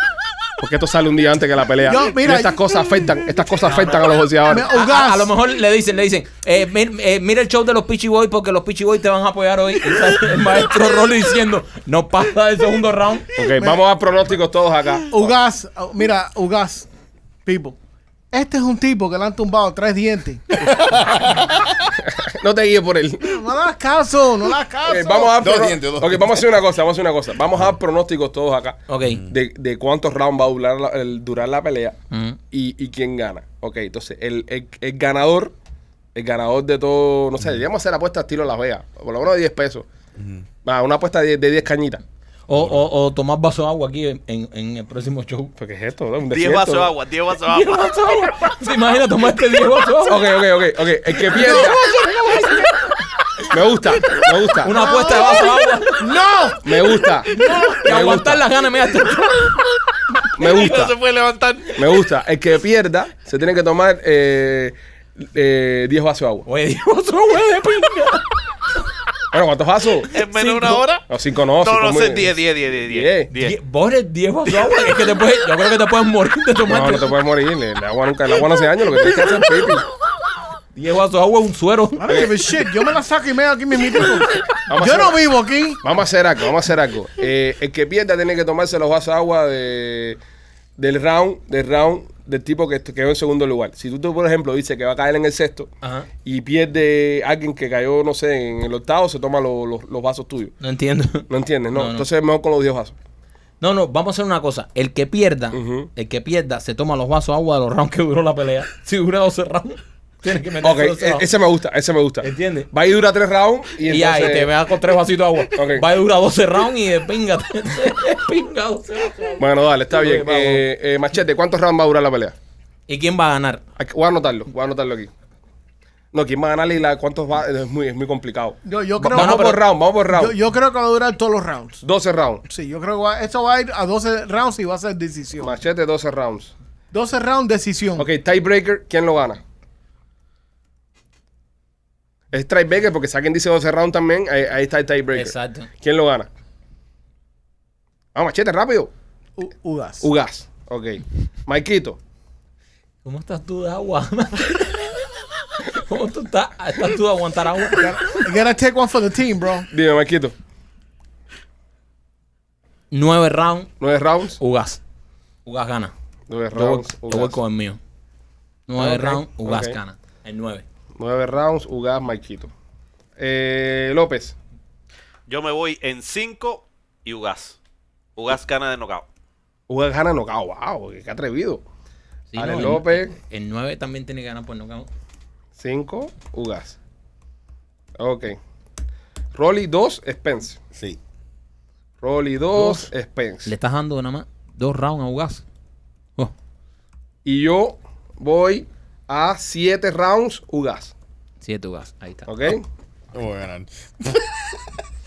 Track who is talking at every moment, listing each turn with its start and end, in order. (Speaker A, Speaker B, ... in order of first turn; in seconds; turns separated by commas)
Speaker A: 0.6-4.7, Speaker B: 1.9-2.6, Speaker B: 4.4-5.3, Speaker C: 4.7-13.3, Speaker A: 13.3-15.3, Speaker B: 15.1-16.9, Speaker B: 17.4-17.8, Speaker B: 18.3-20.4, Speaker D: 20.6-21.9, Speaker A: 22.0-23.4, Speaker B: 23.2-25.4, Speaker A: 24.8-32.0, Speaker D: 25.4-26.4, Speaker C: 28.9-29.2, Speaker D: 29.0-29.3, Speaker C: 32.1-32.4, Speaker A: 32.5-35.5, Speaker A: 36.1-39.9, Speaker D: 40.2-40.5, Speaker A: 40.6-42.0, Speaker C: 42.5-45.5, Speaker D: 42.5-42.8, Speaker A: 45.6-46.9, Speaker E: 46.3-48.0, Speaker C: 47.5-50.2, Speaker A: 50.0-51.8, Speaker B: 51.3-52.5, Speaker A: 53.5-54.8, Speaker C: 54.6-56.1, Speaker B: 54.7-55.5, Speaker B: 56.0-56.7, Speaker A: 56.6-57.3, Speaker B: 57.3-57.8, Speaker C: 57.7-59.5, Speaker A: 57.8-58.4, Speaker A: 60.4-61.0, Speaker E: 60.4-61.8, Speaker A: 61.8-66.5, Speaker C: 66.5-68.2, Speaker A: 69.3-70.2, Speaker E: 70.1-71.0, Speaker C: 70.3-70.8, Speaker A: 71.1-73.3, Speaker E: 71.6-73.5, Speaker C: 73.3-77.1, Speaker A: 76.7-79.8, Speaker C: 80.7-82.1, Speaker B: 82.0-85.8, Speaker A: 84.7-85.2, Speaker A: 85.8-90.2, Speaker A: 90.8-95.7, Speaker C: 95.8-96.1, Speaker A: 96.2-100.5, Speaker C: 100.6-102.0, Speaker A: 101.3-102.9, Speaker C: 103.6-111.2, Speaker A: 105.5-105.9, Speaker A: 110.6-114.5, Speaker C: 112.2-112.7, Speaker C: 113.9-120.6, Speaker A: 115.5-115.8, Speaker A: 119.4-122.3, Speaker C: 122.9-123.6, Speaker A: 123.8-125.1, Speaker A: 126.1-130.3, Speaker B: 128.7-129.6, Speaker C: 129.1-129.6, Speaker B: 130.1-131.8, Speaker A: 131.8-132.4, Speaker B: 132.5-135.5, Speaker A: 135.4-136.5, Speaker B: 136.9-138.1, Speaker A: 138.0-139.4, Speaker A: 142.3-146.3, Speaker C: 145.1-145.7, Speaker A: 148.1-148.9, Speaker B: 149.4-150.1, Speaker A: 150.0-152.0, Speaker C: 153.0-155.1, Speaker C: 155.6-157.9, Speaker B: 157.8-159.7, Speaker A: 159.7-160.3, Speaker C: 162.9-163.7, Speaker A: 163.8-164.4, Speaker C: 164.4-164.8, Speaker C: 165.4-165.9, Speaker A: 166.3-167.4, Speaker C: 166.5-167.8, Speaker C: 168.7-170.6, Speaker A: 168.8-169.8, Speaker A: 171.0-172.5, Speaker A: 173.2-174.3, Speaker E: 175.3-177.6, Speaker E: 178.2-179.1, Speaker A: 179.7-181.6, Speaker C: 182.3-184.9, Speaker A: 182.4-183.1, Speaker A: 185.6-186.8, Speaker A: 188.0-188.4, Speaker A: 189.3-190.6, Speaker D: 190.7-191.0, Speaker A: 192.0-193.5, Speaker C: 192.5-192.9, Speaker C: 193.4-195.4, Speaker A: 197.2-200.9, Speaker C: 201.4-202.3, Speaker A: 202.3-202.6, Speaker D: 203.1-204.7